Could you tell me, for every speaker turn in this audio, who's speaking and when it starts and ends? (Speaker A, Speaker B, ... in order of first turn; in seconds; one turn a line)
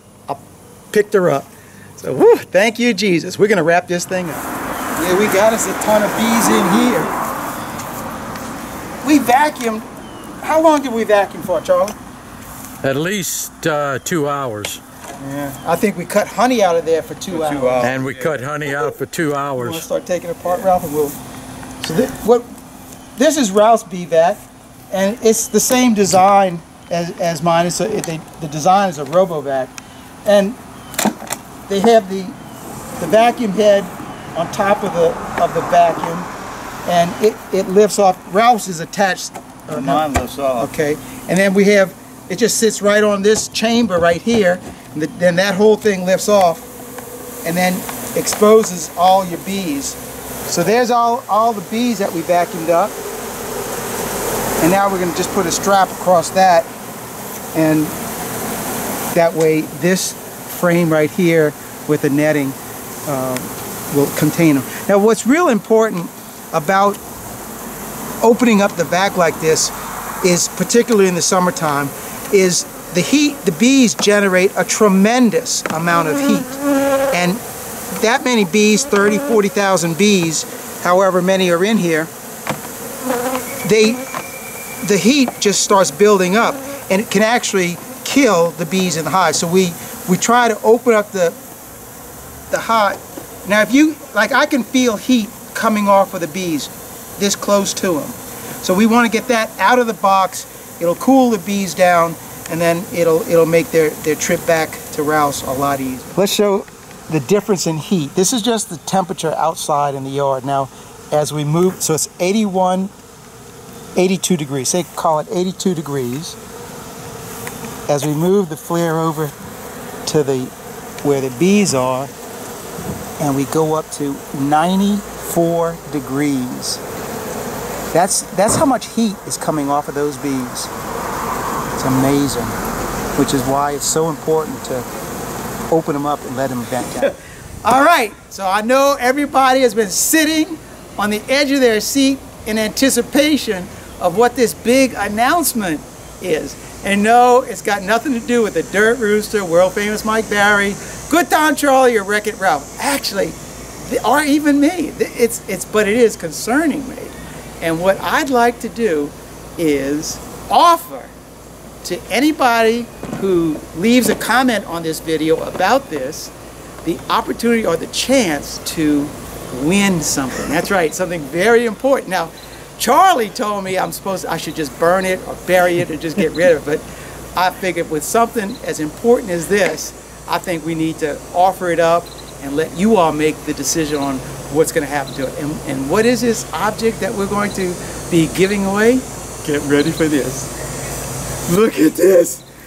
Speaker A: 0.3-4.4
Speaker A: 5.0-7.1
Speaker A: 9.0-9.8
Speaker A: 10.4-11.9
Speaker B: 12.8-14.8
Speaker A: 15.2-17.9
Speaker C: 17.3-18.4
Speaker B: 17.8-19.8
Speaker A: 19.6-21.2
Speaker A: 21.8-22.5
Speaker A: 23.2-29.7
Speaker A: 30.2-30.6
Speaker A: 31.7-32.4
Speaker A: 33.0-36.3
Speaker A: 36.9-40.0
Speaker C: 39.7-40.7
Speaker A: 40.6-46.7
Speaker A: 47.4-53.0
Speaker A: 54.6-56.7
Speaker A: 57.5-57.9
Speaker A: 59.1-67.0
Speaker A: 68.2-76.6
Speaker A: 77.1-77.4
Speaker A: 77.9-82.1
Speaker A: 83.6-84.0
Speaker A: 84.8-91.4
Speaker A: 92.5-112.9
Speaker A: 114.0-116.4
Speaker A: 117.9-119.3
Speaker A: 120.0-122.1
Speaker A: 123.2-126.8
Speaker A: 127.9-130.7
Speaker A: 131.7-132.6
Speaker A: 133.1-134.9
Speaker A: 135.7-161.1
Speaker A: 161.8-166.3
Speaker A: 166.8-176.8
Speaker A: 177.3-190.5
Speaker A: 191.5-192.4